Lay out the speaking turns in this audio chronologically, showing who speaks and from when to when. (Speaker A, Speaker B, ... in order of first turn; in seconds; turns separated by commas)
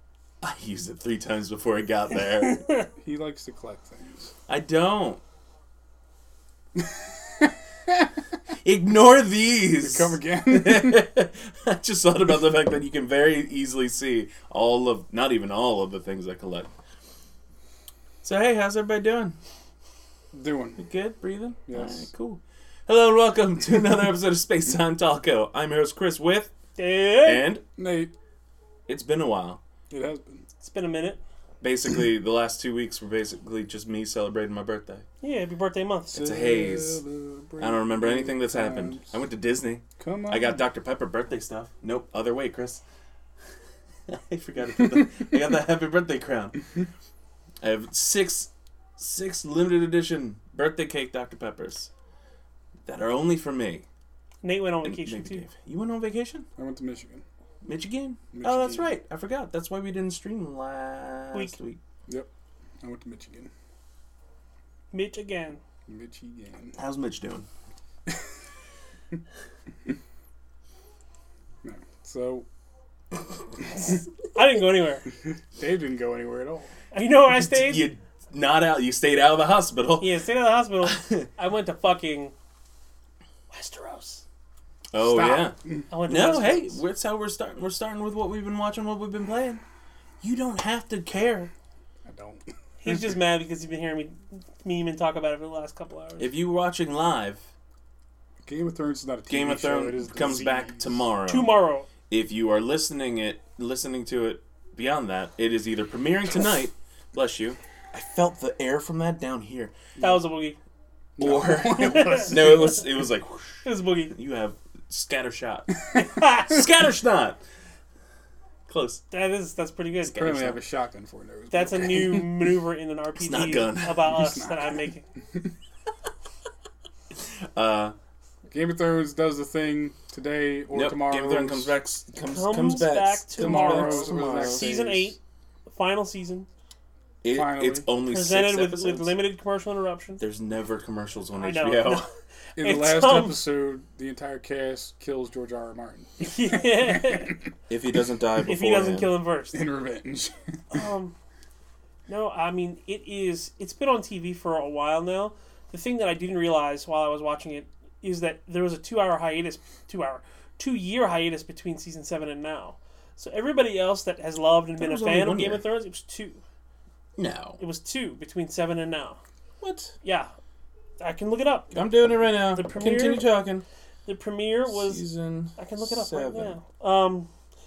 Speaker A: 0.4-2.6, Speaker B: 2.3-2.9, Speaker C: 3.0-4.3, Speaker A: 4.5-5.2, Speaker C: 6.8-8.1, Speaker A: 8.6-16.7, Speaker C: 9.8-11.1, Speaker A: 18.2-19.4, Speaker C: 20.3-20.8, Speaker A: 20.8-26.5, Speaker C: 21.7-22.1, Speaker B: 26.8-27.5, Speaker A: 27.2-27.6, Speaker C: 27.8-28.1, Speaker A: 28.9-29.6, Speaker C: 29.9-30.4, Speaker B: 30.6-31.2, Speaker A: 31.6-35.0, Speaker B: 35.2-36.1, Speaker A: 36.1-37.0, Speaker C: 36.1-39.1, Speaker A: 37.6-42.8, Speaker C: 40.0-40.6, Speaker A: 44.1-46.6, Speaker A: 47.6-51.9, Speaker A: 52.9-53.9, Speaker B: 54.4-55.5, Speaker A: 54.8-56.5, Speaker C: 56.6-57.2, Speaker A: 57.6-61.8, Speaker C: 58.3-59.0, Speaker C: 62.8-63.5, Speaker B: 64.9-65.6, Speaker C: 65.9-66.8, Speaker A: 66.8-67.5, Speaker C: 71.6-72.5, Speaker B: 73.8-75.0, Speaker C: 75.5-76.7, Speaker B: 76.9-77.9, Speaker A: 77.3-80.1, Speaker B: 80.0-82.3, Speaker A: 80.8-81.3, Speaker B: 83.5-84.2, Speaker A: 84.9-85.5, Speaker C: 85.0-85.9, Speaker B: 85.9-86.8, Speaker A: 86.1-89.6, Speaker A: 90.2-91.5, Speaker C: 92.0-92.5, Speaker B: 92.8-96.3, Speaker A: 96.2-97.5, Speaker C: 98.4-101.1, Speaker A: 99.3-101.5, Speaker B: 101.3-101.9, Speaker A: 102.1-109.8, Speaker B: 110.0-110.6, Speaker C: 111.2-112.7, Speaker A: 111.2-115.8, Speaker B: 111.8-112.5, Speaker B: 113.6-114.1, Speaker B: 116.0-116.6, Speaker A: 116.4-117.4, Speaker A: 118.7-119.0, Speaker B: 119.1-120.2, Speaker A: 120.0-120.6, Speaker C: 120.1-122.3, Speaker B: 121.5-125.0, Speaker A: 123.2-124.1, Speaker C: 124.1-124.9, Speaker A: 127.2-128.0, Speaker C: 128.5-131.7, Speaker A: 130.7-134.7, Speaker B: 132.3-136.5, Speaker C: 133.4-135.1, Speaker A: 137.2-139.2, Speaker C: 137.3-137.9, Speaker B: 138.1-140.2, Speaker A: 140.2-142.0, Speaker B: 141.4-142.1, Speaker C: 142.6-147.4, Speaker B: 142.6-143.4, Speaker B: 146.2-147.4, Speaker A: 147.7-149.1, Speaker B: 148.4-149.6, Speaker C: 149.5-150.3, Speaker B: 150.7-151.1, Speaker B: 152.1-166.4, Speaker A: 164.8-165.6, Speaker A: 167.2-167.6, Speaker B: 167.6-169.2, Speaker A: 169.6-169.9, Speaker B: 170.0-170.3, Speaker B: 171.0-171.8, Speaker A: 171.7-173.7, Speaker B: 172.5-173.3, Speaker B: 174.1-175.0, Speaker A: 174.7-176.6, Speaker B: 175.6-177.3